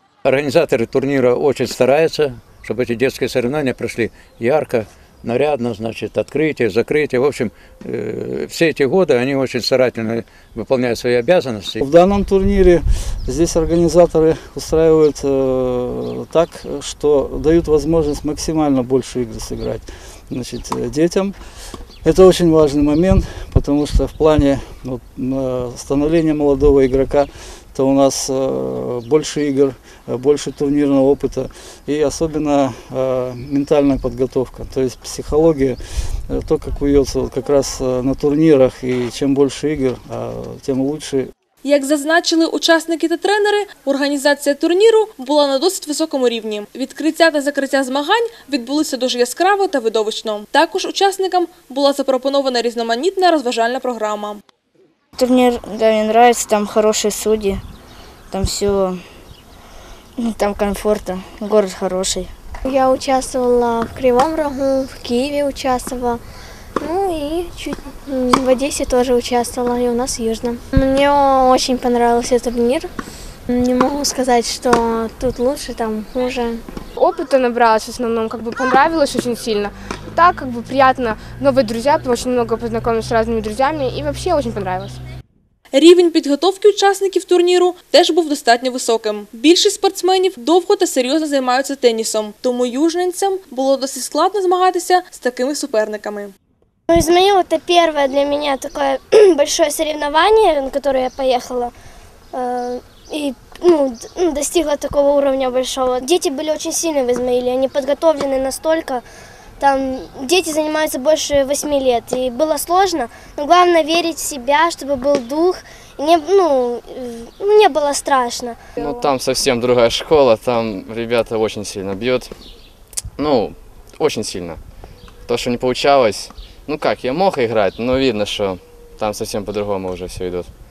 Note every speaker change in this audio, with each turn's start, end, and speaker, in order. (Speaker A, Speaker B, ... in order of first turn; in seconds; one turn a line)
Speaker A: 0.2-11.8
Speaker B: 11.8-21.4
Speaker B: 22.0-35.8
Speaker B: 36.3-41.3
Speaker C: 41.6-54.4
Speaker D: 55.2-57.6
Speaker D: 58.3-59.0
Speaker D: 60.2-62.3
Speaker E: 62.6-66.2
Speaker E: 66.8-72.9
Speaker E: 73.5-76.6
Speaker F: 77.0-85.0
Speaker C: 85.7-96.3
Speaker G: 96.9-101.7
Speaker G: 102.3-109.0
Speaker G: 109.6-118.6
Speaker H: 118.8-122.3
Speaker H: 123.2-124.6
Speaker H: 125.3-130.5